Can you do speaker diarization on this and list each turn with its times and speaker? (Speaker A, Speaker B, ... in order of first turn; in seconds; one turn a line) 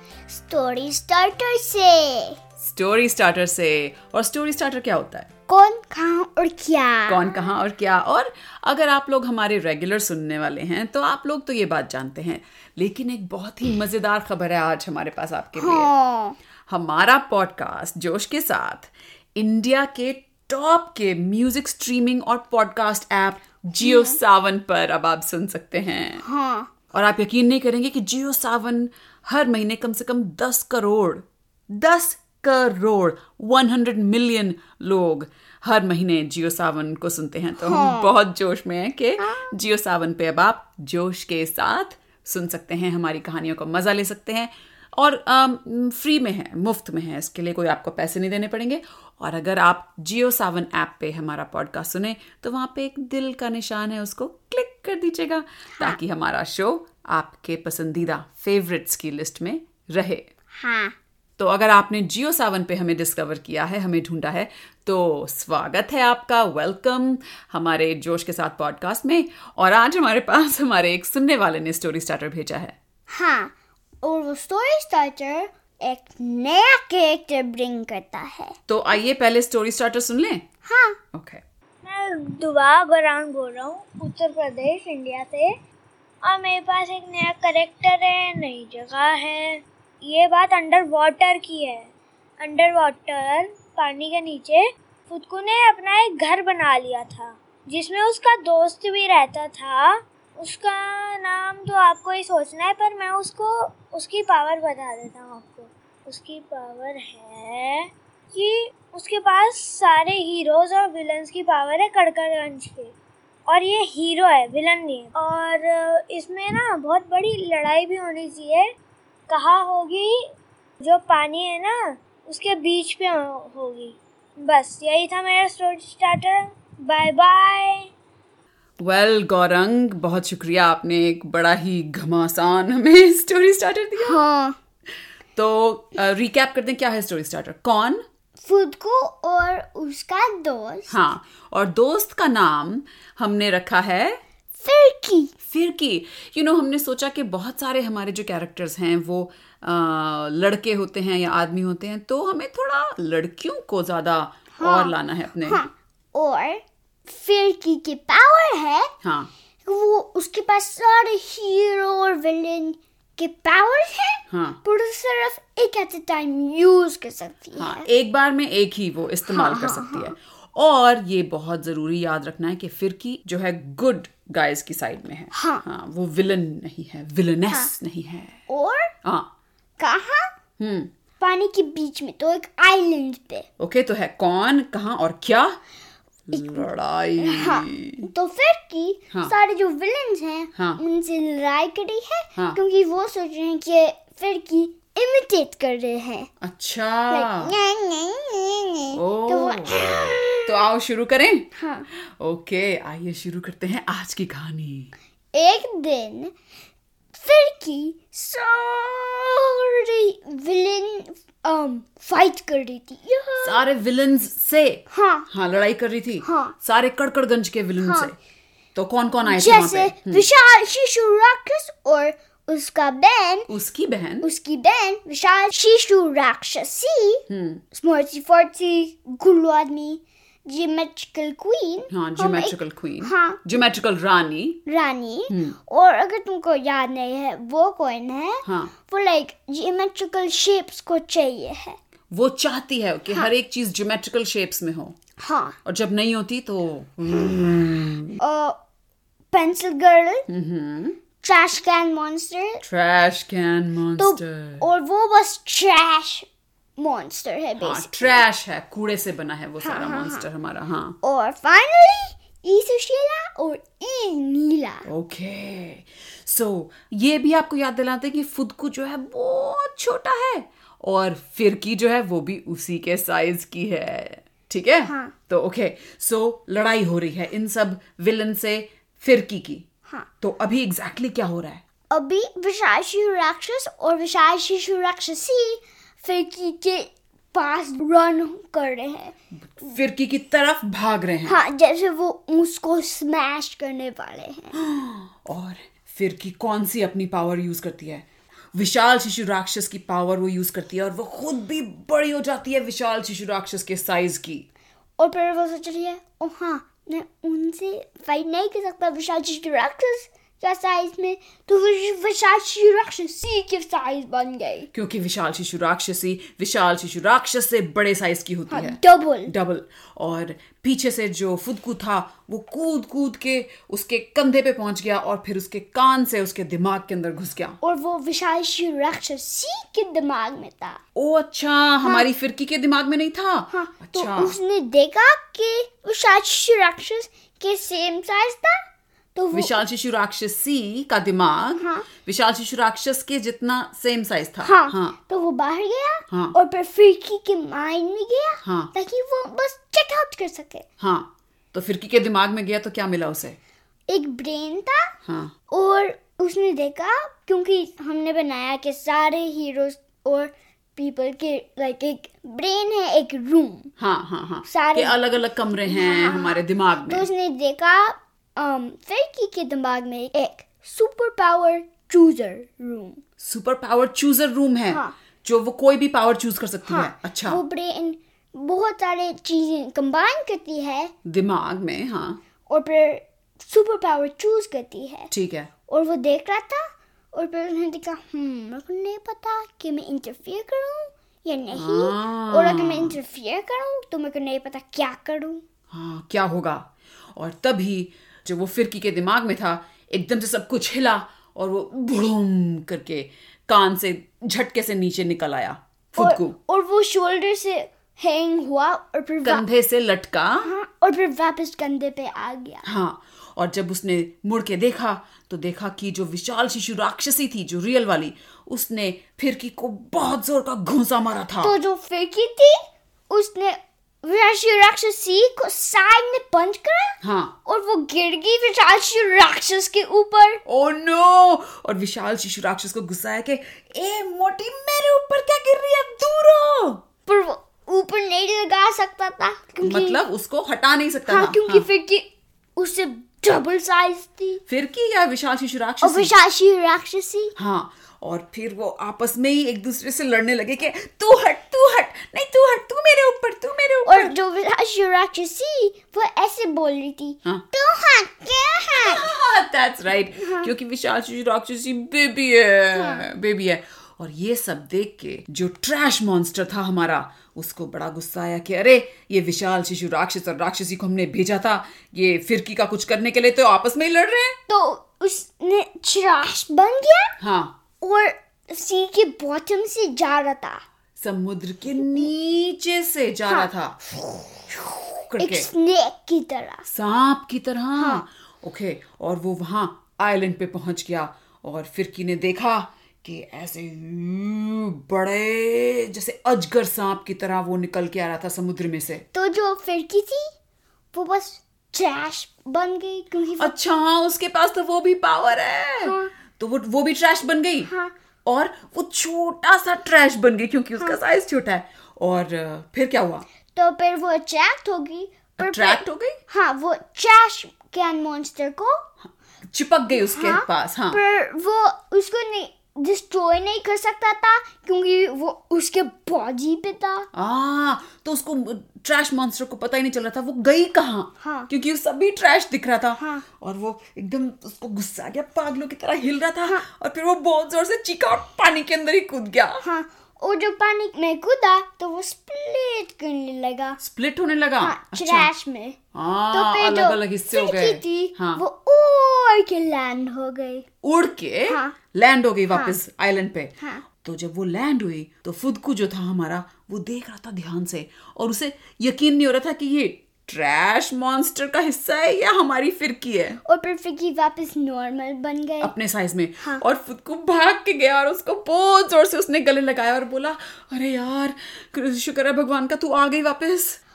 Speaker A: 0.3-2.4
Speaker B: 2.6-5.3
Speaker A: 5.5-7.3
Speaker B: 7.1-15.9
Speaker A: 15.6-16.4
Speaker B: 16.7-26.2
Speaker A: 23.8-24.2
Speaker A: 26.2-26.7
Speaker B: 26.9-60.3
Speaker A: 37.6-38.1
Speaker A: 39.2-39.5
Speaker A: 60.5-61.0
Speaker B: 61.4-72.8
Speaker A: 73.1-78.6
Speaker B: 78.7-80.5
Speaker A: 80.6-81.0
Speaker B: 81.1-81.4
Speaker C: 81.8-85.5
Speaker C: 86.2-91.9
Speaker C: 92.4-112.9
Speaker C: 113.5-118.7
Speaker C: 119.3-120.2
Speaker C: 120.8-127.9
Speaker B: 128.8-134.2
Speaker A: 134.0-134.6
Speaker B: 135.3-138.0
Speaker A: 138.4-140.9
Speaker B: 140.9-144.2
Speaker A: 144.6-145.3
Speaker B: 145.4-155.6
Speaker A: 154.6-154.9
Speaker A: 155.4-158.9
Speaker B: 159.0-159.3
Speaker A: 159.6-167.8
Speaker B: 164.3-164.6
Speaker B: 167.6-178.4
Speaker A: 169.3-170.1
Speaker A: 175.3-175.6
Speaker A: 178.5-178.9
Speaker B: 179.0-179.3
Speaker A: 179.8-180.3
Speaker B: 180.6-180.9
Speaker A: 181.2-183.5
Speaker B: 183.6-185.6
Speaker B: 186.3-188.1
Speaker A: 186.3-186.7
Speaker A: 187.2-196.3
Speaker B: 196.4-197.5
Speaker A: 197.1-200.6
Speaker B: 198.9-204.9
Speaker A: 201.5-201.9
Speaker A: 205.3-206.3
Speaker A: 207.1-213.6
Speaker B: 213.4-218.1
Speaker A: 214.9-215.3
Speaker A: 216.2-216.5
Speaker A: 217.8-218.1
Speaker B: 218.7-220.2
Speaker A: 219.2-223.5
Speaker B: 223.5-224.3
Speaker A: 224.2-233.6
Speaker B: 227.3-227.6
Speaker B: 231.9-234.6
Speaker A: 234.7-241.8
Speaker B: 235.3-235.6
Speaker B: 238.4-238.7
Speaker B: 242.1-245.0
Speaker A: 245.2-245.6
Speaker B: 245.6-248.2
Speaker A: 248.2-248.6
Speaker A: 249.3-250.3
Speaker B: 250.3-251.0
Speaker A: 251.2-252.6
Speaker B: 252.6-254.6
Speaker A: 254.0-258.1
Speaker B: 257.6-261.0
Speaker A: 259.6-260.2
Speaker A: 261.0-264.9
Speaker B: 264.9-279.7
Speaker A: 274.9-275.1
Speaker B: 280.2-281.6
Speaker A: 281.9-289.1
Speaker B: 289.5-291.4
Speaker A: 291.2-294.5
Speaker B: 294.5-304.4
Speaker A: 305.0-314.7
Speaker B: 314.7-327.6
Speaker A: 318.5-319.3
Speaker A: 327.6-330.8
Speaker B: 330.9-334.4
Speaker A: 333.5-338.6
Speaker A: 339.1-339.5
Speaker B: 339.3-344.9
Speaker A: 341.6-341.9
Speaker A: 344.4-350.7
Speaker B: 348.4-348.7
Speaker B: 350.8-353.4
Speaker A: 353.9-354.9
Speaker B: 355.0-355.3
Speaker A: 355.5-363.7
Speaker B: 363.8-367.1
Speaker A: 364.4-365.0
Speaker A: 365.6-373.0
Speaker B: 373.2-377.4
Speaker A: 374.7-374.9
Speaker A: 376.7-380.9
Speaker B: 381.0-382.2
Speaker A: 382.5-385.1
Speaker B: 385.1-385.5
Speaker A: 385.7-395.4
Speaker B: 391.5-393.0
Speaker B: 395.7-406.4
Speaker A: 405.9-409.4
Speaker B: 409.2-410.5
Speaker A: 410.4-412.6
Speaker B: 412.6-421.5
Speaker A: 421.4-430.4
Speaker B: 427.0-427.3
Speaker B: 430.4-436.8
Speaker A: 437.1-440.0
Speaker B: 439.6-441.6
Speaker A: 441.1-444.4
Speaker B: 444.5-446.1
Speaker A: 445.8-447.3
Speaker B: 447.4-454.1
Speaker A: 453.9-459.1
Speaker B: 458.7-474.4
Speaker A: 460.2-460.5
Speaker A: 462.7-463.0
Speaker A: 474.5-477.2
Speaker B: 477.2-477.6
Speaker A: 477.8-480.6
Speaker B: 481.0-483.8
Speaker B: 485.1-485.5
Speaker A: 485.2-486.6
Speaker B: 486.7-499.0
Speaker A: 487.8-488.0
Speaker A: 499.1-500.3
Speaker A: 500.9-503.5
Speaker B: 503.4-507.7
Speaker A: 505.8-506.1
Speaker A: 507.7-507.9
Speaker B: 508.2-513.2
Speaker A: 513.5-518.9
Speaker B: 515.4-516.2
Speaker B: 519.5-521.0
Speaker A: 519.9-527.1
Speaker B: 527.1-539.6
Speaker A: 531.2-531.5
Speaker A: 533.0-533.2
Speaker A: 539.6-543.8
Speaker B: 543.8-545.3
Speaker A: 544.6-545.8
Speaker B: 545.9-548.4
Speaker A: 546.3-550.6
Speaker B: 550.8-563.4
Speaker A: 551.5-551.8
Speaker A: 553.6-553.8
Speaker A: 563.4-565.7
Speaker B: 565.6-573.8